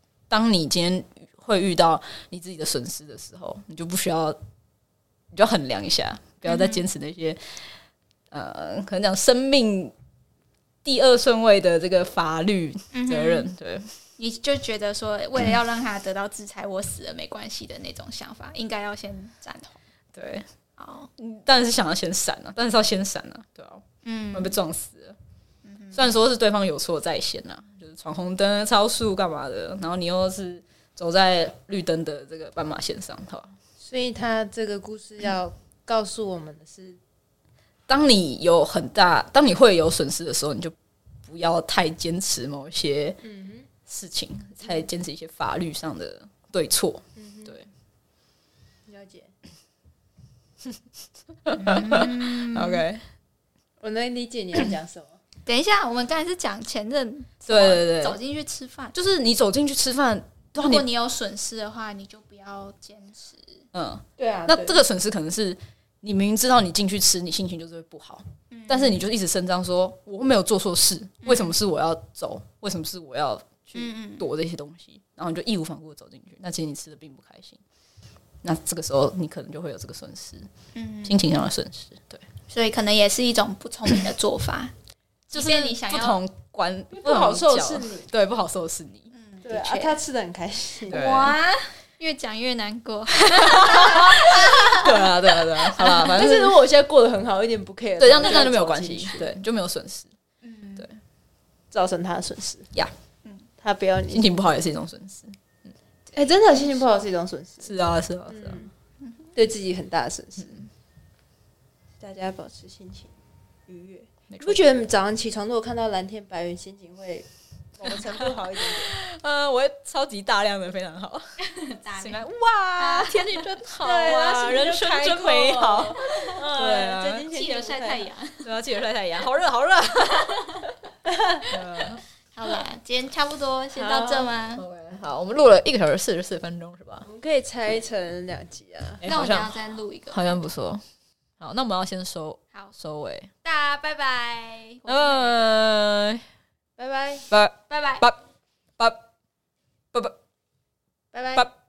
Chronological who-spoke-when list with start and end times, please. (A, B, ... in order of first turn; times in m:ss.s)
0:00.3-0:04.4 A
0:05.3-0:07.4 A
0:06.5-0:06.8 B
0:08.3-0:09.9 A
0:10.8-0:13.9 A
0:12.9-0:13.5 B
0:14.2-0:19.8 B
0:20.1-0:20.5 A
0:20.8-0:21.1 B
0:21.2-0:25.2 A
0:24.0-0:24.6 B
0:25.6-0:26.2 B
0:25.9-0:33.5 A
0:33.8-0:37.0 C
0:37.9-0:40.8 A
0:41.3-0:43.2 A
0:43.2-0:43.7 C
0:43.9-0:47.7 A
0:47.2-0:47.6 C
0:48.9-0:49.3 C
0:51.4-0:53.0 A
0:51.6-0:52.8 B
0:53.8-0:55.2 C
0:55.5-0:59.0 B
0:57.4-0:58.2 A
0:58.9-1:00.9 A
1:00.6-1:03.6 B
1:03.7-1:17.6 A
1:04.2-1:04.8 C
1:08.5-1:09.0 B
1:11.2-1:11.6 B
1:13.8-1:14.3 B
1:18.4-1:20.5 A
1:20.8-1:21.2 B
1:21.0-1:22.2 A
1:22.5-1:24.7 B
1:25.3-1:26.2 B
1:25.3-1:29.1 A
1:26.9-1:28.1 C
1:29.1-1:30.0 B
1:29.4-1:31.0 C
1:30.9-1:35.1 B
1:30.9-1:31.4 A
1:33.3-1:36.6 A
1:35.7-1:36.2 B
1:35.9-1:39.3 C
1:38.0-1:40.1 A
1:40.4-1:40.9 B
1:41.7-1:42.7 C
1:43.2-1:43.5 B
1:43.6-1:44.3 C
1:44.1-1:45.4 A
1:46.1-1:48.7 C
1:47.6-1:48.6 A
1:49.0-1:49.3 B
1:49.4-1:50.6 C
1:52.0-1:53.1 C
1:53.7-1:59.0 C
1:54.3-1:54.6 A
1:57.9-2:07.3 A
2:01.5-2:03.4 B
2:03.8-2:08.1 C
2:07.3-2:08.5 B
2:08.4-2:10.5 A
2:10.4-2:10.6 B
2:11.1-2:11.4 C
2:11.5-2:12.0 A
2:12.3-2:14.6 B
2:13.7-2:14.3 C
2:14.6-2:17.1 A
2:17.0-2:19.0 C
2:19.0-2:19.5 A
2:19.0-2:20.4 B
2:20.1-2:20.8 A
2:21.4-2:23.3 A
2:23.4-2:25.5 B
2:24.9-2:26.3 A
2:26.8-2:27.3 C
2:27.3-2:28.2 A
2:27.7-2:28.0 B
2:31.1-2:31.5 C